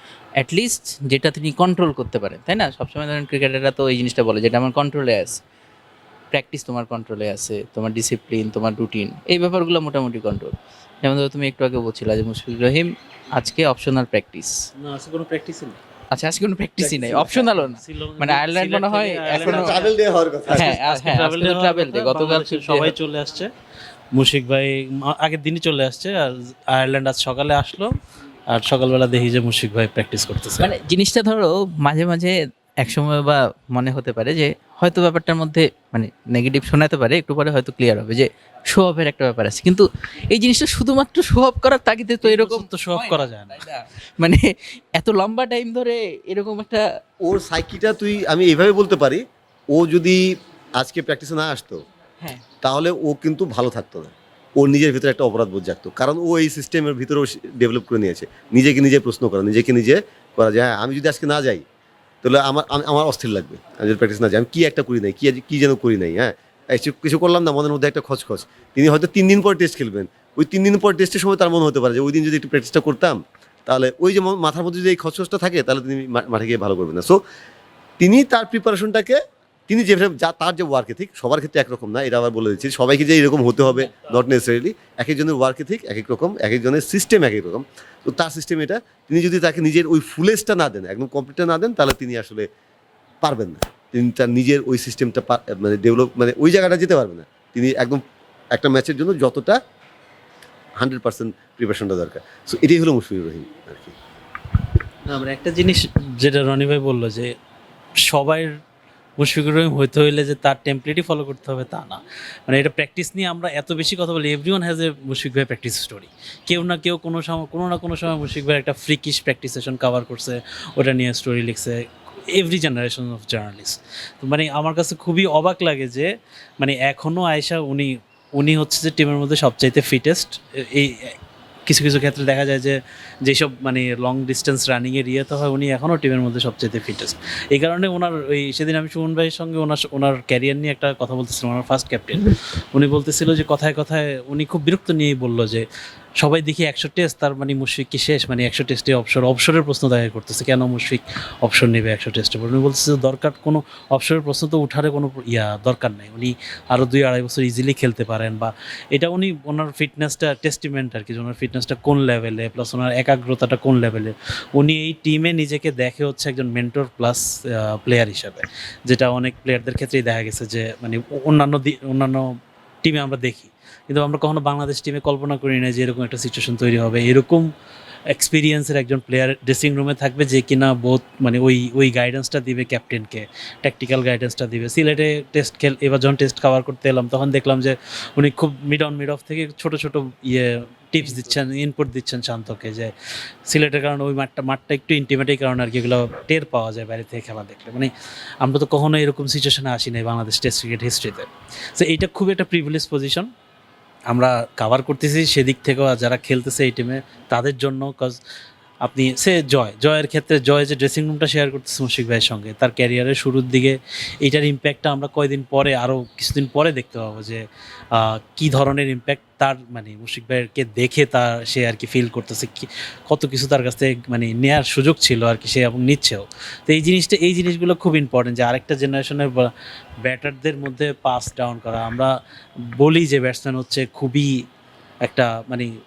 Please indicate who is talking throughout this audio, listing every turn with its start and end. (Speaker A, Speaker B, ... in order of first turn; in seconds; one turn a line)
Speaker A: 0.4-5.4
Speaker A: 6.3-14.5
Speaker B: 14.8-15.8
Speaker A: 16.1-19.8
Speaker B: 16.9-19.9
Speaker C: 19.4-20.7
Speaker B: 20.5-23.5
Speaker A: 20.5-22.9
Speaker B: 24.1-27.9
Speaker B: 28.5-30.7
Speaker A: 30.6-44.4
Speaker B: 42.2-43.6
Speaker A: 45.0-46.8
Speaker C: 47.2-50.2
Speaker C: 50.8-51.8
Speaker C: 52.6-61.6
Speaker C: 62.2-77.2
Speaker C: 78.0-92.5
Speaker C: 93.2-98.0
Speaker C: 98.5-99.6
Speaker C: 100.8-103.9
Speaker B: 105.1-107.3
Speaker B: 108.1-108.5
Speaker B: 109.2-121.8
Speaker B: 122.3-126.1
Speaker B: 126.6-131.2
Speaker B: 131.7-145.7
Speaker B: 146.2-172.2
Speaker B: 172.8-177.5
Speaker B: 178.1-192.9
Speaker B: 193.5-203.3
Speaker B: 204.1-208.2
Speaker B: 208.8-217.4
Speaker B: 217.9-229.5
Speaker B: 230.0-232.1
Speaker B: 232.8-234.3
Speaker B: 235.0-235.7